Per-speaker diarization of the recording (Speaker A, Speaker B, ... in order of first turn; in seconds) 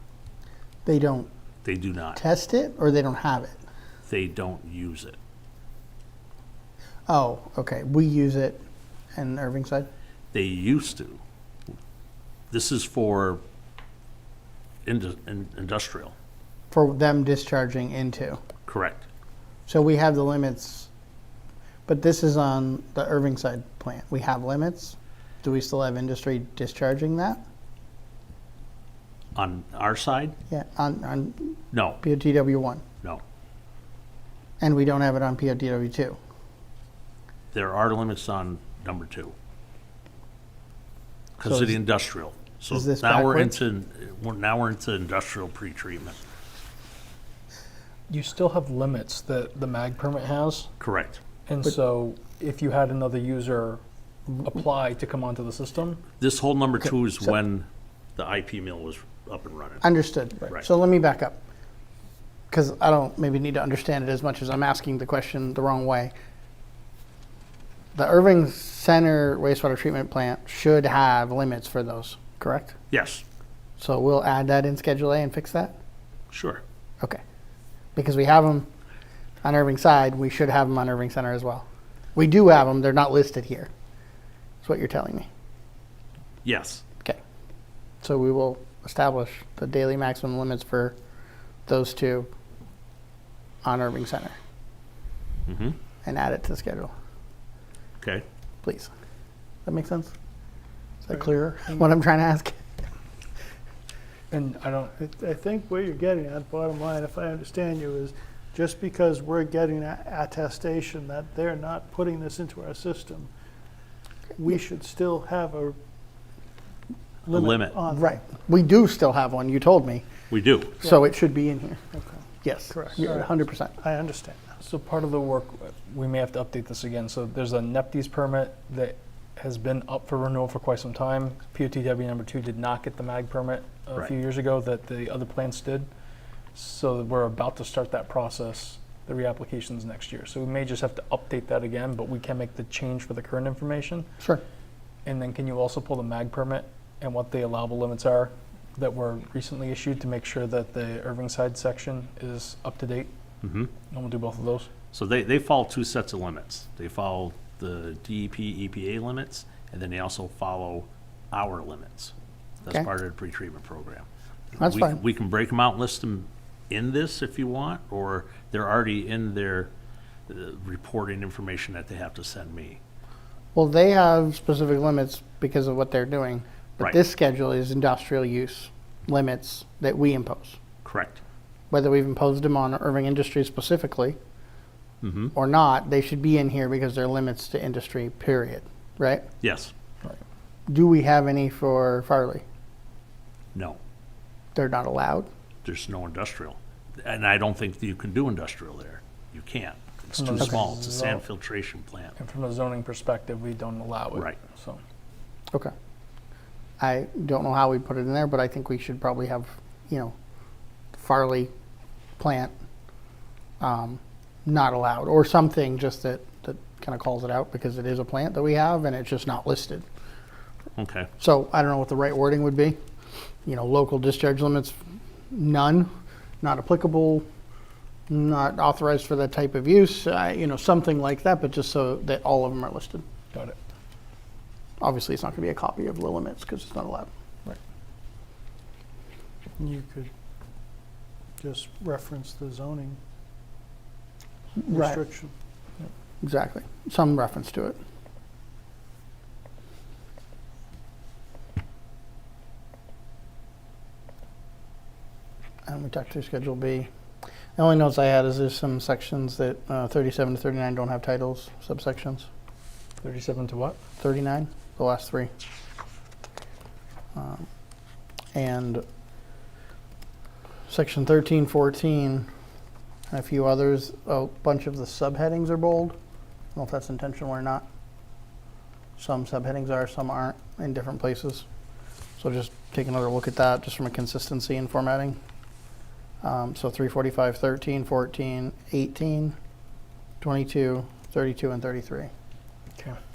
Speaker A: 0.8-1.3, 2.2-3.6, 7.1-8.6, 9.2-9.9, 16.7-18.4, 19.7-20.9, 21.9-27.4, 30.5-32.8, 34.6-36.2, 41.5-41.7, 42.7-43.6, 59.8-61.4, 62.5-66.1, 68.0-72.8, 73.8-75.8, 78.0-78.7, 79.4-83.7, 84.6-85.3, 88.0-91.0, 91.7-92.3, 93.6-94.4, 96.0-96.9, 98.6-98.9, 99.7-100.1, 101.0-102.6, 117.9-120.0, 120.8-121.8, 122.4-123.7, 164.6-165.0, 173.5-180.6, 181.7-184.2, 185.3-189.2, 190.7-192.4, 194.6-195.3, 206.8-210.2, 210.9-211.5, 212.2-212.5, 213.6-219.9, 221.2-222.8, 223.5-224.8, 225.3-225.9, 226.4-227.2, 228.1-233.0, 234.8-237.1, 244.6-245.0, 246.2-247.8, 255.7-256.9, 257.6-262.3, 264.0-265.3, 267.1-267.5, 268.3-268.8, 270.7-272.3, 273.1-276.0, 276.6-277.6, 279.0-281.5, 282.2-285.2, 286.2-289.4, 290.2-292.1
Speaker B: 1.6-2.2, 4.1-5.2, 10.3-11.2, 12.5-13.4, 14.9-16.1, 18.7-19.1, 29.4-30.4, 31.7-32.0, 37.5-39.4, 41.4-46.2, 50.8-51.2, 56.2-59.8, 72.9-73.2, 76.3-76.6, 86.5-86.8, 95.5-95.8, 98.0-98.2, 117.3-117.8, 120.3-120.8, 153.4-153.7, 154.9-162.1, 162.7-169.7, 170.3-172.8, 180.8-181.2, 185.0-185.3, 189.4-189.7, 193.6-193.8, 195.7-202.2, 220.8-221.1
Speaker C: 48.1-50.7, 51.5-56.0, 104.3-104.9, 124.6-135.9, 136.5-144.1, 145.1-153.1, 153.9-154.7, 200.2-201.2, 202.2-204.8, 263.0-263.8
Speaker D: 105.0-113.3, 114.4-115.8, 117.3-118.2, 122.7-123.3, 123.8-124.6, 239.6-240.1, 241.4-243.0, 244.7-245.3